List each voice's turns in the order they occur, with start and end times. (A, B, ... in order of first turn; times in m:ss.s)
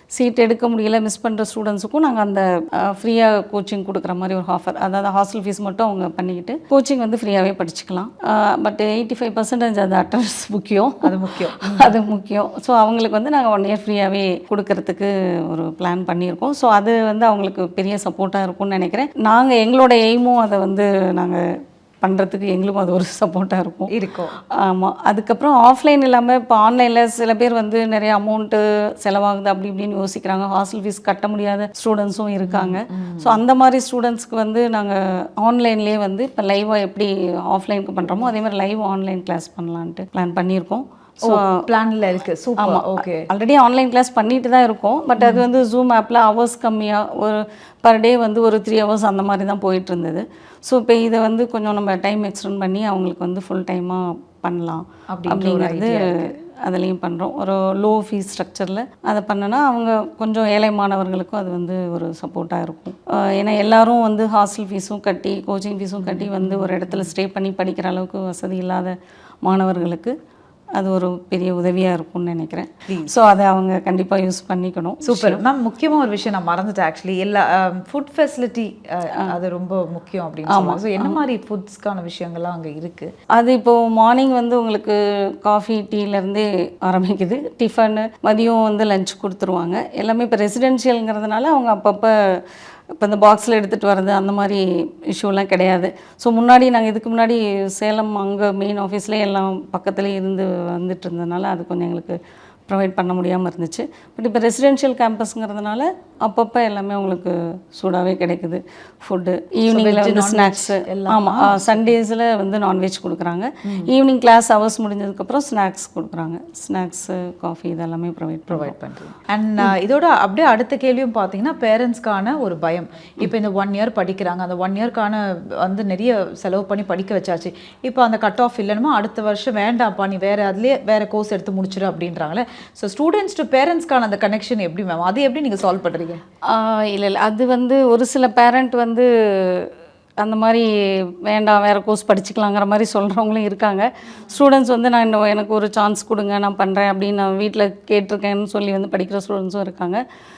0:00.1-0:21.4 A
0:11.0-0:11.9 B
0:22.0-0:23.9 A
0:23.9-0:24.3 B
0:24.5-0:41.6 A
0:32.4-0:33.4 B
0:41.2-0:43.3 B
0:42.6-1:10.2 A
0:45.2-0:45.4 B
0:55.1-0:56.3 B
1:06.0-1:07.1 B
1:10.8-1:15.4 A
1:12.9-1:13.1 B
1:15.0-1:23.1 B
1:20.5-1:21.2 A
1:23.4-1:32.4 A
1:33.0-1:58.7 A
1:49.7-1:51.9 B
1:53.7-1:53.9 B
1:58.5-2:16.2 B
2:16.5-2:19.7 A
2:20.2-2:20.7 A
2:21.2-2:30.0 A